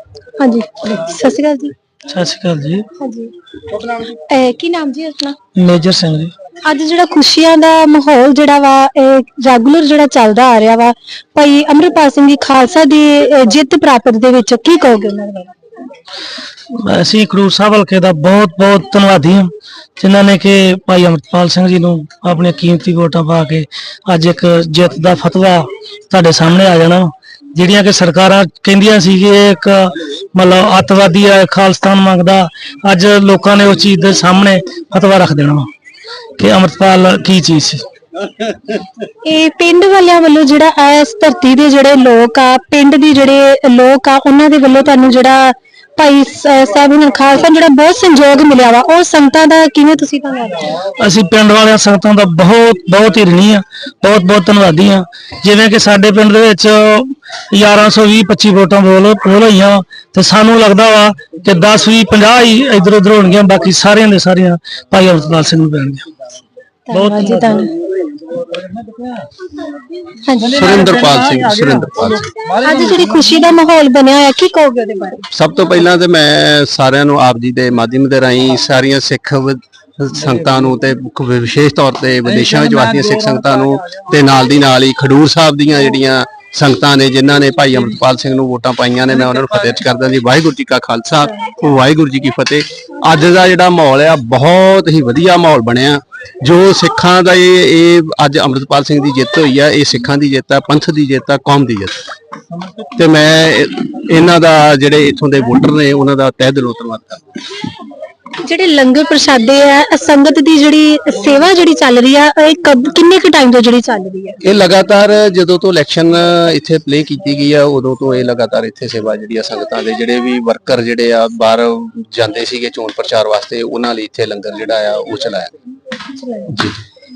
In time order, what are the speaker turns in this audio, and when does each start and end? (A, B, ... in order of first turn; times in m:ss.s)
0:00.4-0:01.7 A
0:02.1-0:02.8 B
0:03.0-0:03.3 A
0:03.8-0:05.4 A
0:05.6-0:06.3 B
0:06.6-0:15.5 A
0:16.8-0:35.7 B
0:36.4-0:37.8 B
0:39.2-0:50.7 A
0:51.0-1:06.0 B
1:06.9-1:07.7 A
1:06.9-1:07.6 B
1:10.2-1:10.7 A
1:10.4-1:12.3 C
1:12.6-1:15.2 A
1:15.3-1:42.0 C
1:42.9-1:47.2 C
1:48.4-1:54.4 A
1:54.4-2:05.5 C
2:06.1-2:06.5 A